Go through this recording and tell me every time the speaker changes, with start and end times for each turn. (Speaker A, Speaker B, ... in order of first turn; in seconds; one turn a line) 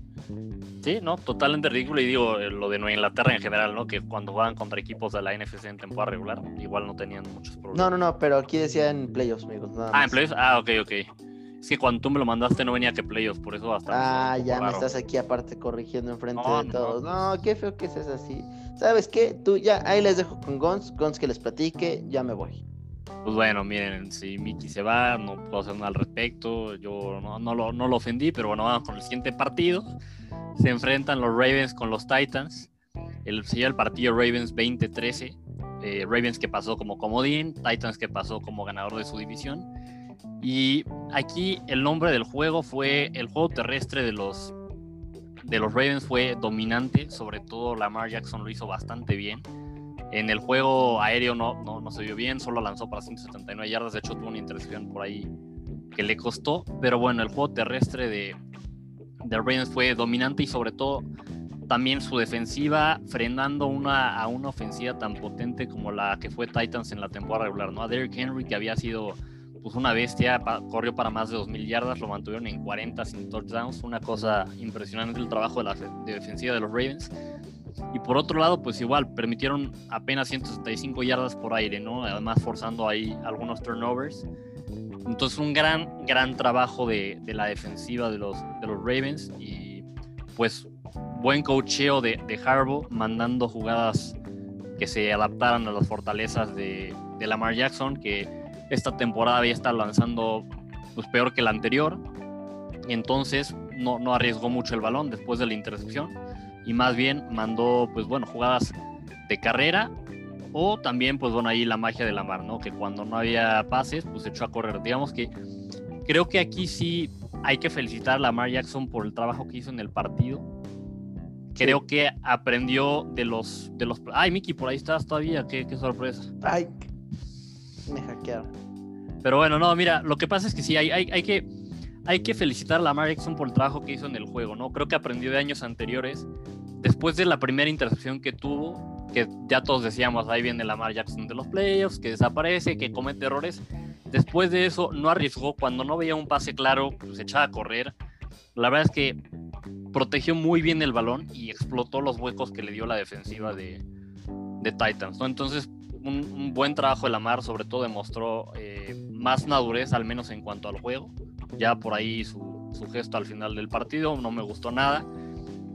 Speaker A: 0.8-7.9
Speaker B: 7.7-10.2
Speaker A: 9.9-11.1
Speaker A: 11.6-14.9
Speaker B: 13.9-22.6
Speaker A: 16.4-17.3
Speaker A: 23.2-29.9
Speaker A: 30.6-32.7
Speaker A: 33.2-39.7
Speaker A: 40.4-44.5
Speaker A: 45.4-49.4
Speaker A: 50.1-55.3
Speaker A: 55.9-58.4
Speaker A: 59.2-61.1
Speaker A: 61.7-77.1
Speaker A: 77.9-84.2
Speaker A: 85.0-89.8
Speaker A: 90.4-94.2
Speaker A: 94.8-102.0
Speaker A: 102.8-108.7
Speaker A: 109.3-109.9
Speaker A: 110.5-115.3
Speaker A: 116.0-120.5
Speaker A: 121.5-126.3
Speaker B: 126.4-126.8
Speaker B: 127.9-128.5
Speaker A: 129.2-131.5
Speaker A: 132.0-136.3
Speaker A: 136.8-147.9
Speaker A: 148.5-149.2
Speaker A: 149.9-153.8
Speaker A: 154.6-165.1